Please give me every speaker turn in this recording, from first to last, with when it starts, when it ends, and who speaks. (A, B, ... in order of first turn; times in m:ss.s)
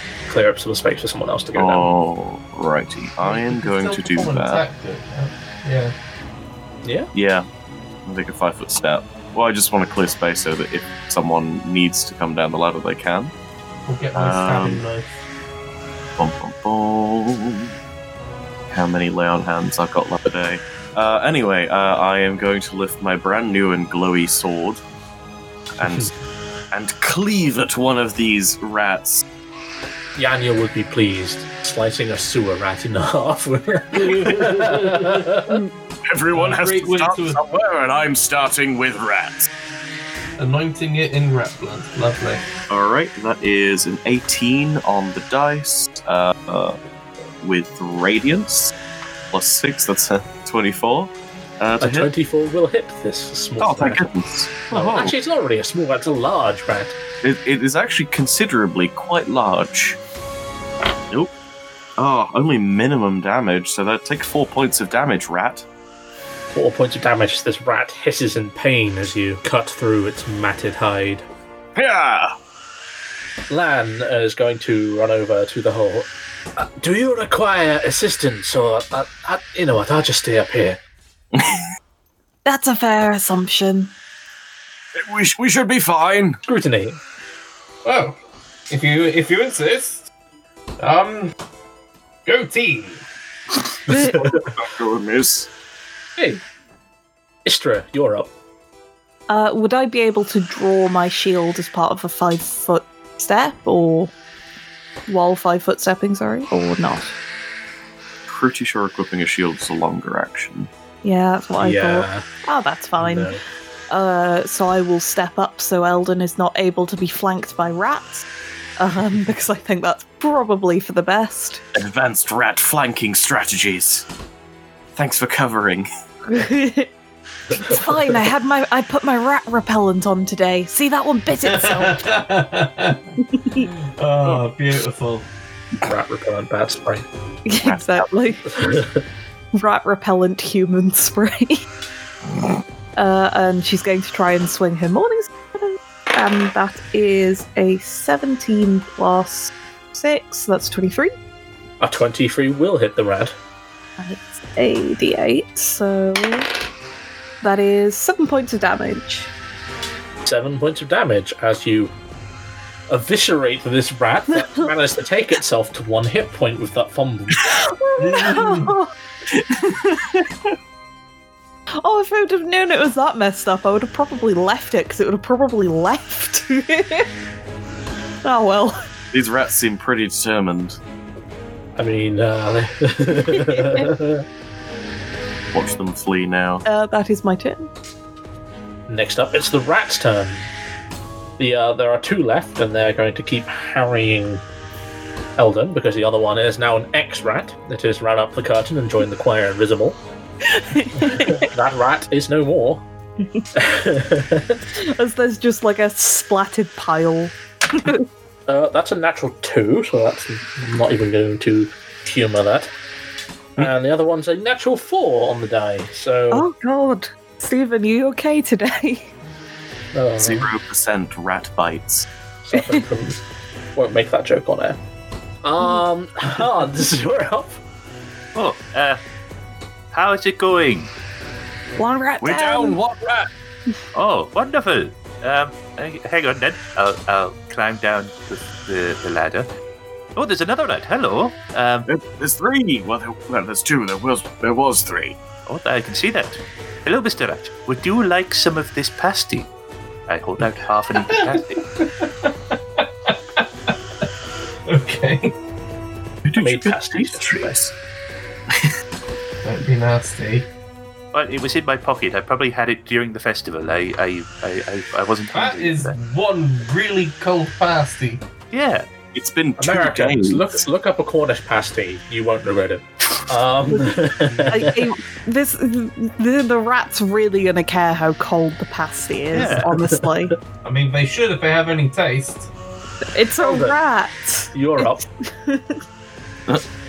0:00.3-0:01.9 A
0:01.6-0:04.6 B
0:03.2-0:05.9 C
0:06.8-0:07.1 A
0:07.1-0:07.5 B
0:08.0-0:13.3 B
0:13.9-0:15.2 C
0:14.2-0:14.8 B
0:16.2-0:17.7 B
0:18.7-0:24.8 B
0:25.8-0:26.1 B
0:25.8-0:26.1 A
0:26.7-0:29.2 B
0:30.2-0:35.6 A
0:33.9-0:35.3 C
0:36.1-0:39.5 B
0:36.3-0:37.4 C
0:40.4-0:42.4 C
0:42.7-0:46.8 B
0:47.4-0:48.7 B
0:49.3-0:52.1 B
0:51.8-0:54.1 A
0:53.6-0:55.2 B
0:54.7-0:57.0 A
0:57.2-1:00.0 B
1:02.0-1:05.6 B
1:06.5-1:11.3 A
1:11.8-1:12.3 B
1:13.5-1:20.8 A
1:21.3-1:21.6 B
1:22.4-1:23.9 D
1:25.0-1:26.4 B
1:26.4-1:27.0 A
1:27.8-1:28.2 C
1:28.7-1:30.1 C
1:30.8-1:31.3 C
1:32.3-1:33.0 C
1:33.9-1:35.5 B
1:33.9-1:34.2 D
1:36.2-1:36.4 A
1:37.4-1:38.3 A
1:39.3-1:44.1 D
1:45.1-1:47.1 D
1:48.3-1:50.7 B
1:51.0-1:53.3 D
1:51.6-1:52.3 A
1:53.0-1:53.4 A
1:53.9-1:58.3 D
1:58.8-2:01.6 D
2:01.8-2:04.1 B
2:05.0-2:05.9 B
2:06.3-2:06.9 D
2:07.5-2:12.0 D
2:11.4-2:13.0 C
2:13.3-2:13.7 D
2:14.0-2:15.3 C
2:15.8-2:17.0 A
2:17.5-2:18.5 D
2:17.6-2:18.1 B
2:18.5-2:19.0 A
2:19.5-2:21.6 D
2:23.0-2:31.1 D
2:31.8-2:33.4 A
2:34.0-2:36.5 D
2:37.4-2:39.3 D
2:40.2-2:41.9 A
2:42.9-2:47.5 A
2:47.8-2:48.9 D
2:48.0-2:48.7 C
2:49.3-2:50.2 B
2:51.8-2:57.1 D
2:58.2-2:58.8 D
2:59.1-3:00.8 B
3:01.8-3:04.2 A
3:03.3-3:03.9 D
3:05.5-3:06.6 B
3:06.7-3:07.7 D
3:08.9-3:10.5 A
3:11.4-3:14.4 A
3:15.4-3:20.0 A
3:20.5-3:21.5 D
3:21.0-3:22.8 A
3:23.2-3:23.5 D
3:23.6-3:24.6 A
3:24.7-3:28.0 D
3:28.5-3:32.7 A
3:33.6-3:36.5 A
3:36.3-3:39.1 D
3:39.9-3:40.5 A
3:40.2-3:42.1 B
3:42.4-3:43.2 A
3:42.5-3:42.8 D
3:43.8-3:44.8 A
3:45.4-3:47.6 A
3:48.4-3:49.0 E
3:49.9-3:50.9 E
3:51.8-3:52.8 D
3:52.2-3:53.3 B
3:53.9-3:59.5 E
4:00.2-4:01.9 E
4:01.9-4:05.2 B
4:05.5-4:09.5 E
4:10.1-4:11.6 E
4:11.1-4:13.7 C
4:14.7-4:15.4 C
4:16.2-4:17.7 B
4:16.4-4:17.6 A
4:19.4-4:20.5 C
4:21.1-4:26.0 E
4:25.3-4:28.2 C
4:28.5-4:28.9 E
4:29.1-4:30.6 B
4:29.6-4:34.8 A
4:34.5-4:40.4 D
4:39.3-4:39.7 E
4:39.7-4:40.1 A
4:40.6-4:42.5 C
4:43.1-4:45.8 D
4:43.4-4:43.8 A
4:44.5-4:45.1 A